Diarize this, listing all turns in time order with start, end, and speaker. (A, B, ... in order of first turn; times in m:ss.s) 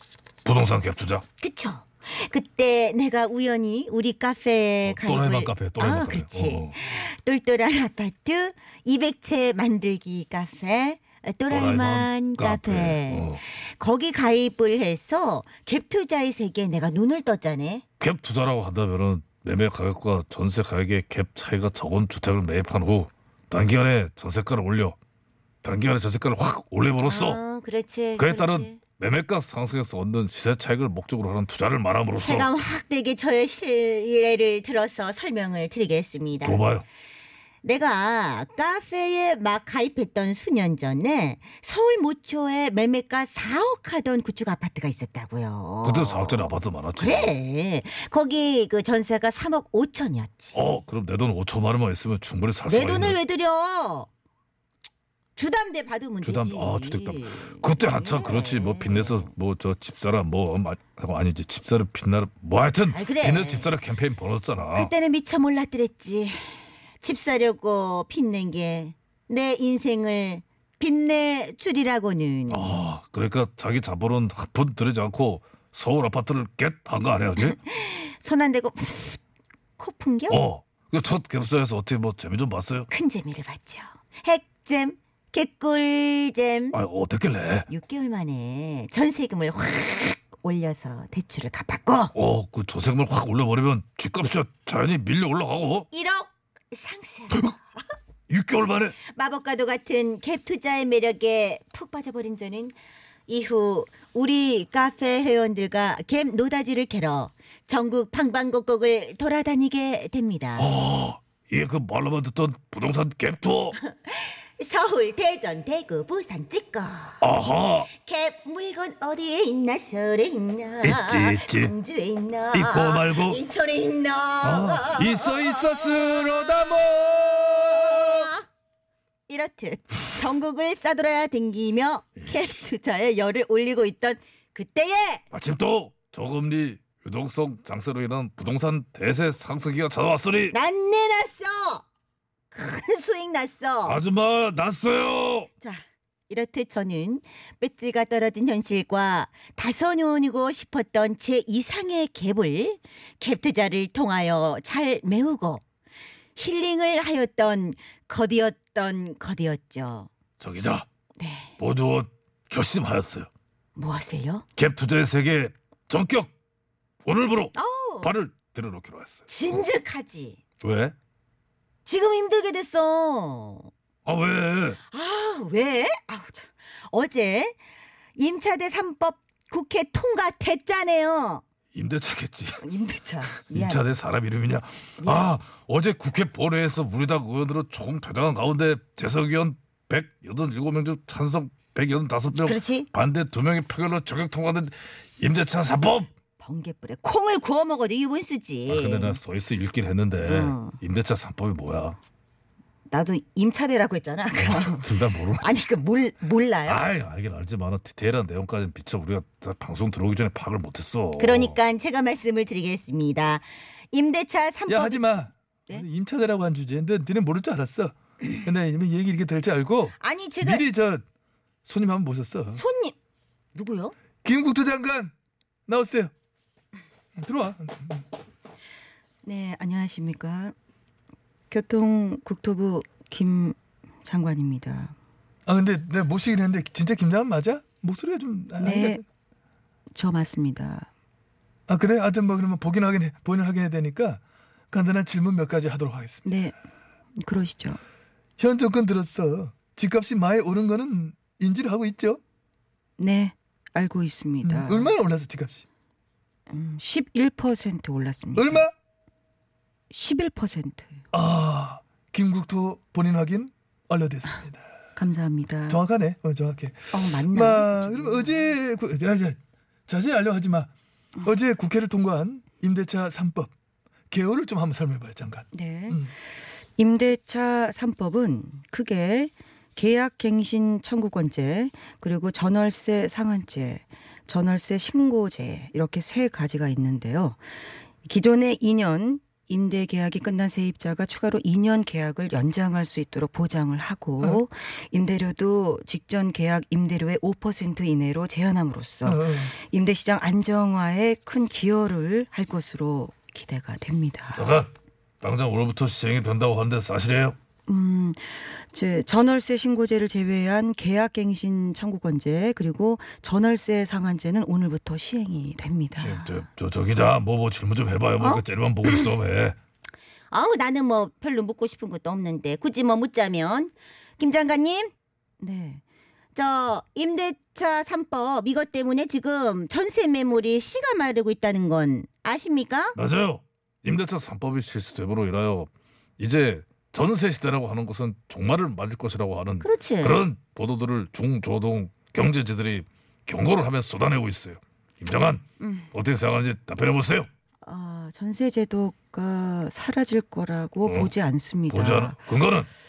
0:00.4-0:01.2 A
0:01.4-0:05.4 B
0:04.8-0:06.7 A
0:05.8-0:06.7 C
0:06.7-0:12.3 B
0:11.5-0:13.4 A
0:11.6-0:13.2 C
0:13.3-0:17.8 B
0:18.0-0:25.0 A
0:25.6-0:27.4 A
0:27.0-0:28.7 C
0:27.6-0:28.1 B
0:28.2-0:32.5 A
0:32.2-0:36.5 B
0:32.3-0:32.6 C
0:36.4-0:36.8 A
0:37.6-0:46.2 B
0:45.5-0:46.0 C
0:45.8-0:47.3 A
0:47.0-0:47.4 C
0:47.3-0:50.5 B
0:50.5-0:53.2 A
0:52.7-0:54.1 B
0:52.8-0:53.3 C
0:55.4-0:56.8 B
0:56.2-1:04.9 A
0:56.3-0:59.1 C
1:03.1-1:03.6 C
1:04.8-1:06.3 B
1:07.0-1:12.5 B
1:12.5-1:17.6 A
1:17.6-1:19.2 B
1:19.8-1:20.2 B
1:20.3-1:22.9 A
1:22.9-1:23.7 C
1:23.1-1:26.7 B
1:24.4-1:24.7 C
1:26.7-1:27.7 A
1:27.7-1:32.1 B
1:32.1-1:35.9 A
1:35.9-1:36.2 C
1:36.1-1:37.3 B
1:38.3-1:39.0 A
1:39.1-1:42.7 B
1:43.3-1:50.6 B
1:50.2-1:50.6 C
1:50.6-1:53.8 A
1:53.8-1:57.2 B
1:54.9-1:56.9 C
1:57.2-1:57.9 A
1:58.0-2:05.6 B
2:00.8-2:01.7 A
2:01.6-2:01.9 C
2:02.5-2:03.4 A
2:02.5-2:03.6 C
2:04.4-2:08.3 A
2:07.9-2:08.3 B
2:09.3-2:15.2 B
2:09.5-2:10.4 C
2:12.1-2:12.7 C
2:12.2-2:12.5 A
2:15.3-2:20.6 A
2:20.5-2:20.9 C
2:20.7-2:21.8 B
2:22.5-2:23.7 B
2:23.4-2:24.0 C
2:23.8-2:25.5 A
2:26.3-2:35.6 B
2:36.4-2:40.1 B
2:40.4-2:40.9 A
2:41.2-2:41.5 C
2:41.6-2:43.3 A
2:43.8-2:44.4 C
2:44.0-2:44.4 B
2:44.6-2:46.3 A
2:47.0-2:49.3 A
2:47.6-2:48.0 C
2:49.3-2:50.1 C
2:49.7-2:50.4 B
2:50.6-2:51.0 A
2:51.8-2:53.7 B
2:54.0-2:54.8 A
2:54.9-2:56.1 B
2:56.1-2:56.5 C
2:56.9-2:57.5 B
2:58.2-3:01.4 B
3:01.7-3:02.6 A
3:02.6-3:03.8 C
3:03.3-3:16.1 A
3:05.0-3:05.3 C
3:12.5-3:12.8 B
3:16.4-3:18.8 B
3:18.7-3:22.0 A
3:22.9-3:24.9 C
3:23.5-3:24.1 B
3:24.3-3:25.5 A
3:25.7-3:26.7 B
3:26.3-3:26.8 C
3:26.6-3:31.6 A
3:31.2-3:34.9 B
3:34.7-3:41.0 D
3:40.0-3:40.6 C
3:41.6-3:42.6 D
3:42.7-3:42.9 B
3:43.5-3:43.9 B
3:44.2-3:45.1 D
3:45.7-3:46.1 D
3:47.2-3:48.0 D
3:49.2-3:50.5 C
3:51.5-3:54.9 C
3:55.5-3:59.0 D
3:58.6-3:59.0 C
3:59.9-4:00.9 C
4:01.7-4:06.3 D
4:06.2-4:06.5 C
4:07.2-4:07.8 C
4:08.4-4:12.2 D
4:13.0-4:14.9 C
4:14.4-4:15.6 D
4:16.5-4:18.6 C
4:18.4-4:18.7 D
4:19.9-4:21.0 C
4:21.1-4:24.6 D
4:25.0-4:25.8 C
4:25.7-4:29.4 D
4:26.9-4:28.5 C
4:29.9-4:30.7 D
4:31.2-4:33.5 D
4:34.1-4:36.1 D
4:35.5-4:36.1 C
4:36.8-4:47.4 C
4:48.0-5:04.5 C
4:59.0-4:59.5 D
5:04.4-5:07.4 A
5:07.7-5:16.4 C
5:16.0-5:19.6 A
5:20.3-5:24.7 C
5:20.6-5:23.7 B
5:24.4-5:24.8 B
5:25.4-5:25.8 C
5:26.4-5:26.6 C
5:26.4-5:32.9 B
5:29.6-5:31.3 C
5:32.1-5:32.6 C
5:33.0-5:47.3 A
5:39.6-5:40.2 C
5:45.6-5:45.9 C
5:47.6-5:52.2 C
5:50.8-5:51.1 A
5:51.7-5:52.7 A